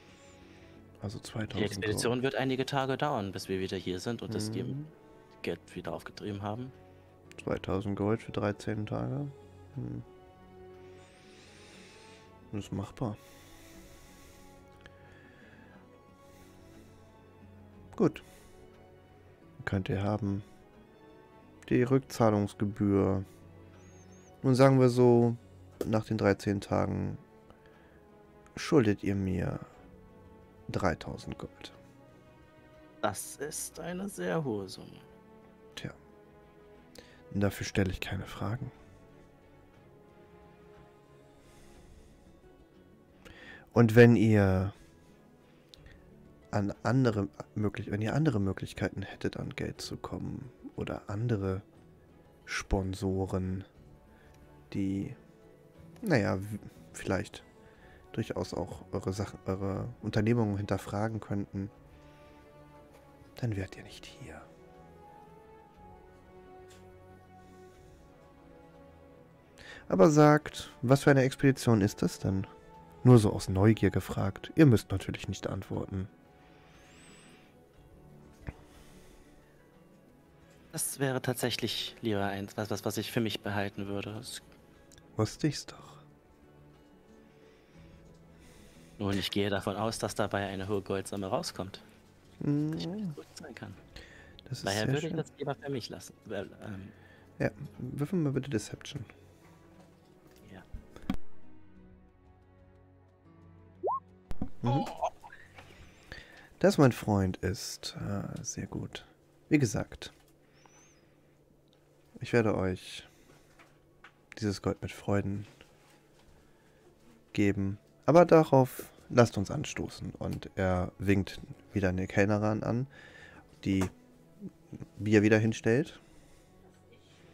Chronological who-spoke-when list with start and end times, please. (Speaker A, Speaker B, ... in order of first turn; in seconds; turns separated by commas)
Speaker A: 1.0-2.1, Speaker B: 1.5-4.8, Speaker A: 4.3-4.9, Speaker B: 5.4-6.7, Speaker A: 7.4-10.0, Speaker A: 12.5-13.2, Speaker A: 17.9-18.2, Speaker A: 19.6-20.4, Speaker A: 21.6-23.2, Speaker A: 24.4-27.2, Speaker A: 28.6-29.7, Speaker A: 30.7-31.7, Speaker B: 33.0-35.0, Speaker A: 37.3-38.7, Speaker A: 43.7-44.7, Speaker A: 46.5-51.6, Speaker A: 52.5-53.7, Speaker A: 54.7-55.2, Speaker A: 56.0-57.4, Speaker A: 58.1-61.7, Speaker A: 63.4-64.5, Speaker A: 69.9-72.5, Speaker A: 73.0-76.1, Speaker B: 80.7-84.4, Speaker A: 85.2-86.0, Speaker B: 89.0-91.8, Speaker A: 92.4-93.2, Speaker B: 92.7-93.8, Speaker A: 94.5-95.2, Speaker B: 94.6-96.9, Speaker A: 97.4-99.1, Speaker A: 104.6-104.9, Speaker B: 104.6-105.1, Speaker A: 106.6-110.1, Speaker A: 112.2-113.1, Speaker A: 114.3-115.5, Speaker A: 117.3-122.9, Speaker A: 123.6-123.9, Speaker A: 125.0-126.0